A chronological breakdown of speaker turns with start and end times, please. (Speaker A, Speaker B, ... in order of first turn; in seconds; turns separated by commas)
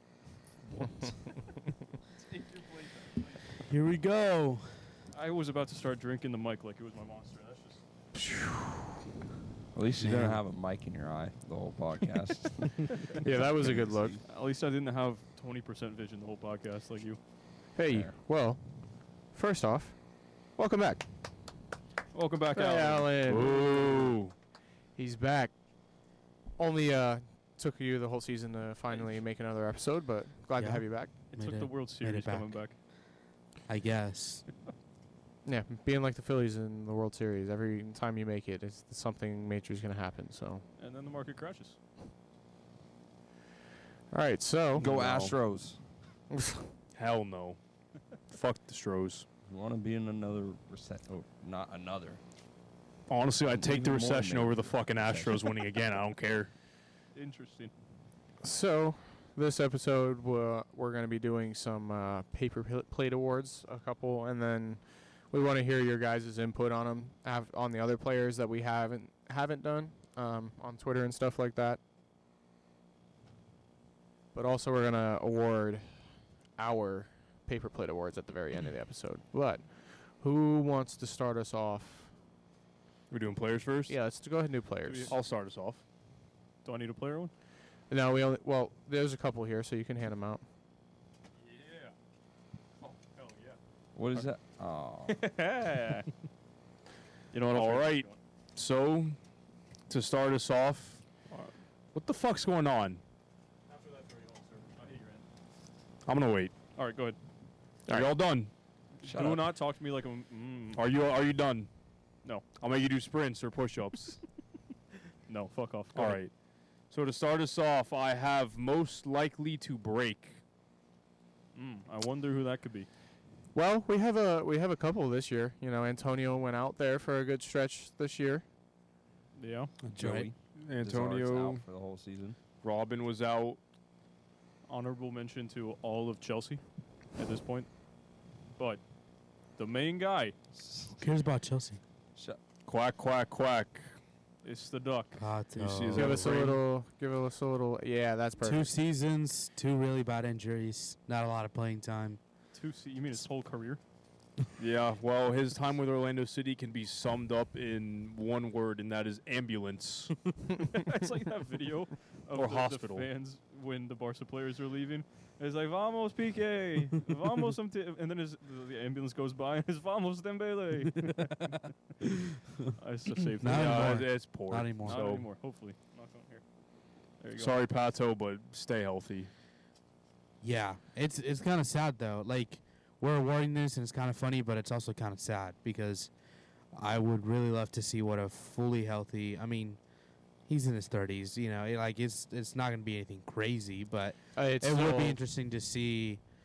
Speaker A: 2.2-3.4, Speaker B: 3.6-4.8, Speaker A: 5.1-7.8, Speaker C: 8.1-8.9, Speaker D: 9.7-14.2, Speaker B: 10.0-10.4, Speaker C: 12.9-14.2, Speaker A: 14.3-17.2, Speaker C: 17.8-20.0, Speaker D: 17.9-18.1, Speaker C: 20.5-21.4, Speaker A: 22.1-23.1, Speaker C: 22.5-24.2, Speaker E: 23.2-24.3, Speaker C: 25.0-25.5, Speaker C: 26.6-31.1, Speaker B: 30.6-32.6, Speaker A: 31.3-32.8, Speaker B: 33.7-34.5, Speaker C: 35.5-40.6, Speaker A: 40.8-41.8, Speaker C: 44.1-44.9, Speaker D: 44.8-45.9, Speaker E: 44.8-45.4, Speaker C: 46.3-46.7, Speaker E: 46.9-47.6, Speaker E: 48.3-49.3, Speaker D: 49.5-52.2, Speaker E: 53.1-56.5, Speaker D: 53.6-55.7, Speaker A: 57.1-57.7, Speaker C: 58.4-71.8, Speaker C: 74.3-82.2, Speaker E: 83.1-84.0, Speaker C: 83.9-85.2, Speaker A: 84.9-85.2, Speaker E: 85.1-85.8, Speaker A: 86.6-87.3, Speaker C: 87.9-90.4, Speaker A: 91.4-91.9, Speaker A: 93.0-93.6, Speaker D: 94.0-95.3, Speaker A: 95.1-96.1, Speaker A: 97.3-98.2, Speaker E: 97.5-99.2, Speaker E: 99.9-101.0, Speaker E: 101.9-103.0, Speaker A: 103.7-105.2, Speaker E: 106.1-106.5, Speaker A: 106.8-107.2, Speaker C: 107.9-108.1, Speaker E: 107.9-108.5, Speaker A: 109.0-110.8, Speaker D: 109.0-109.5, Speaker E: 110.8-111.7, Speaker E: 112.6-114.2, Speaker A: 115.3-116.2, Speaker E: 115.9-116.3, Speaker E: 116.9-120.4, Speaker A: 121.5-122.9, Speaker C: 123.5-128.4, Speaker A: 129.3-129.7, Speaker B: 129.8-130.3, Speaker D: 129.9-132.4, Speaker E: 130.5-131.6, Speaker E: 132.6-133.6, Speaker A: 134.7-136.6, Speaker A: 137.1-137.7, Speaker A: 138.6-138.8, Speaker A: 139.6-140.3, Speaker D: 140.5-141.1, Speaker B: 141.0-141.8, Speaker D: 142.2-142.4, Speaker E: 142.7-143.9, Speaker A: 144.4-145.3, Speaker B: 145.2-146.4, Speaker E: 145.6-146.6, Speaker C: 145.9-148.7, Speaker B: 148.4-152.2, Speaker A: 152.5-153.8, Speaker E: 154.6-160.3, Speaker A: 160.7-171.6, Speaker E: 162.3-163.1, Speaker A: 172.8-174.2, Speaker B: 173.4-175.0, Speaker E: 173.4-175.3, Speaker A: 174.8-176.4, Speaker A: 177.2-177.6, Speaker E: 177.4-179.3, Speaker B: 180.4-186.1, Speaker B: 186.7-189.8, Speaker B: 190.5-196.2, Speaker C: 194.3-195.2